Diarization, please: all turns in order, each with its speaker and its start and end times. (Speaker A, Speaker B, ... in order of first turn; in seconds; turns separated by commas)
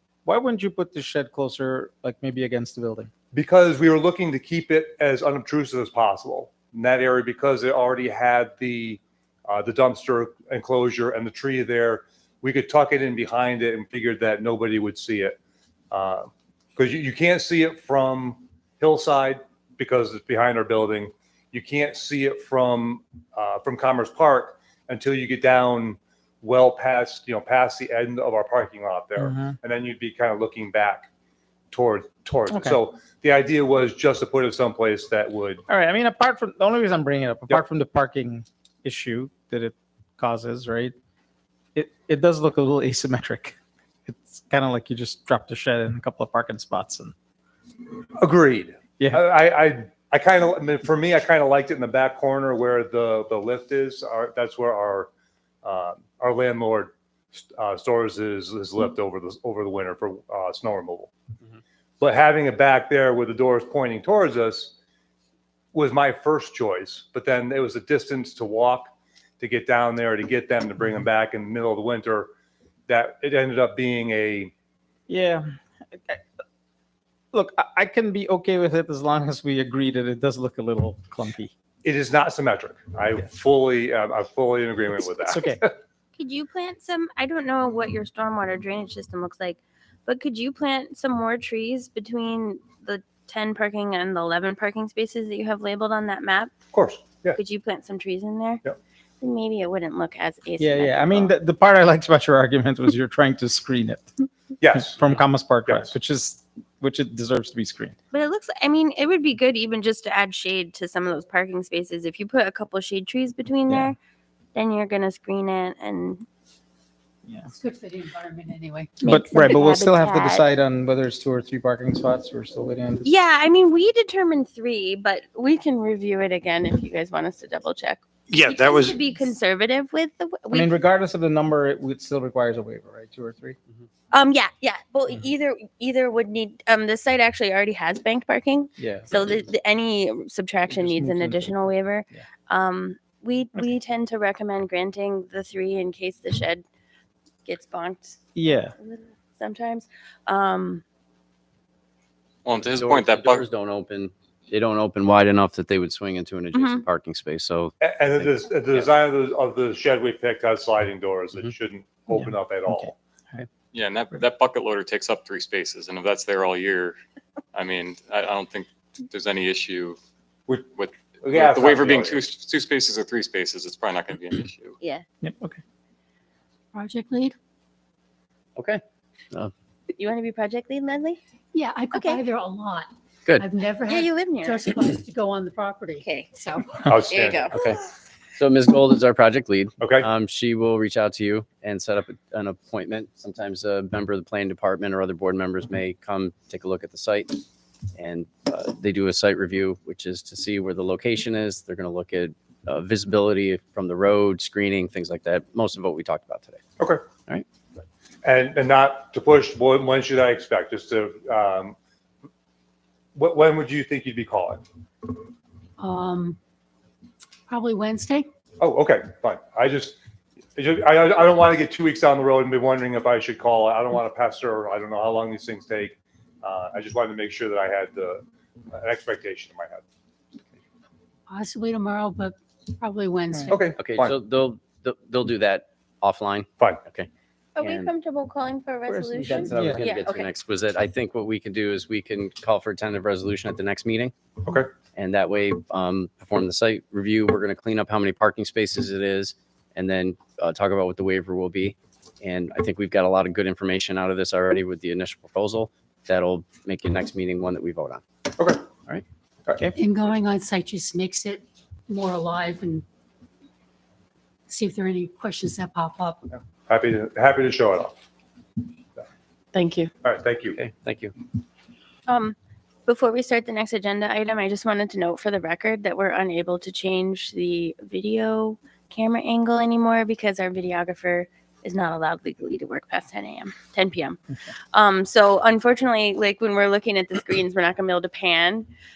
Speaker A: 0.2-3.1, Speaker B: 3.3-15.3, Speaker B: 15.9-31.1, Speaker A: 29.2-29.6, Speaker B: 31.7-35.6, Speaker A: 32.5-32.8, Speaker A: 35.7-40.9, Speaker A: 41.7-47.1, Speaker B: 48.2-55.1, Speaker A: 49.0-49.2, Speaker B: 55.6-61.1, Speaker B: 62.0-64.7, Speaker B: 65.7-72.3, Speaker B: 72.9-74.5, Speaker A: 75.1-75.5, Speaker A: 77.3-81.5, Speaker B: 81.8-85.7, Speaker A: 85.2-85.6, Speaker C: 86.2-96.5, Speaker B: 96.7-97.4, Speaker C: 97.3-98.6, Speaker C: 99.2-101.3, Speaker A: 100.6-104.0, Speaker B: 104.6-105.0, Speaker A: 104.8-108.0, Speaker C: 108.1-114.0, Speaker A: 113.7-113.9, Speaker C: 114.5-116.2, Speaker A: 117.2-117.5, Speaker D: 117.5-119.0, Speaker C: 119.0-120.4, Speaker A: 119.0-123.1, Speaker C: 123.0-130.7, Speaker B: 128.3-128.9, Speaker A: 130.5-133.6, Speaker C: 134.1-146.6, Speaker A: 138.8-139.1, Speaker A: 140.7-142.2, Speaker C: 147.4-150.8, Speaker A: 148.3-148.7, Speaker E: 152.4-153.5, Speaker F: 152.6-158.9, Speaker C: 156.5-156.8, Speaker B: 157.8-162.9, Speaker A: 162.1-163.5, Speaker E: 163.7-167.0, Speaker E: 167.5-170.0, Speaker E: 170.7-174.8, Speaker B: 171.2-172.2, Speaker A: 175.2-175.6, Speaker D: 176.7-177.3, Speaker F: 178.6-178.8, Speaker C: 179.9-181.2, Speaker D: 181.5-186.8, Speaker C: 181.9-182.2, Speaker C: 183.8-184.8, Speaker C: 186.0-186.3, Speaker B: 186.8-187.5, Speaker C: 187.0-187.6, Speaker F: 187.5-187.8, Speaker F: 188.4-197.4, Speaker B: 189.8-190.1, Speaker F: 197.9-206.6, Speaker B: 206.8-207.0, Speaker B: 208.2-211.8, Speaker B: 213.2-214.6, Speaker D: 215.8-216.4, Speaker D: 217.5-218.3, Speaker B: 218.6-220.0, Speaker B: 220.6-229.8, Speaker D: 231.3-233.6, Speaker B: 233.5-234.2, Speaker F: 233.8-237.9, Speaker C: 237.6-240.3, Speaker A: 238.9-239.8, Speaker F: 239.3-244.1, Speaker B: 244.4-244.7, Speaker F: 244.9-258.0, Speaker B: 258.4-258.6, Speaker D: 259.8-262.8, Speaker D: 264.5-266.2, Speaker B: 266.3-267.9, Speaker C: 269.5-269.9, Speaker B: 270.0-270.6, Speaker F: 270.6-271.1, Speaker C: 272.1-284.2, Speaker C: 284.7-288.7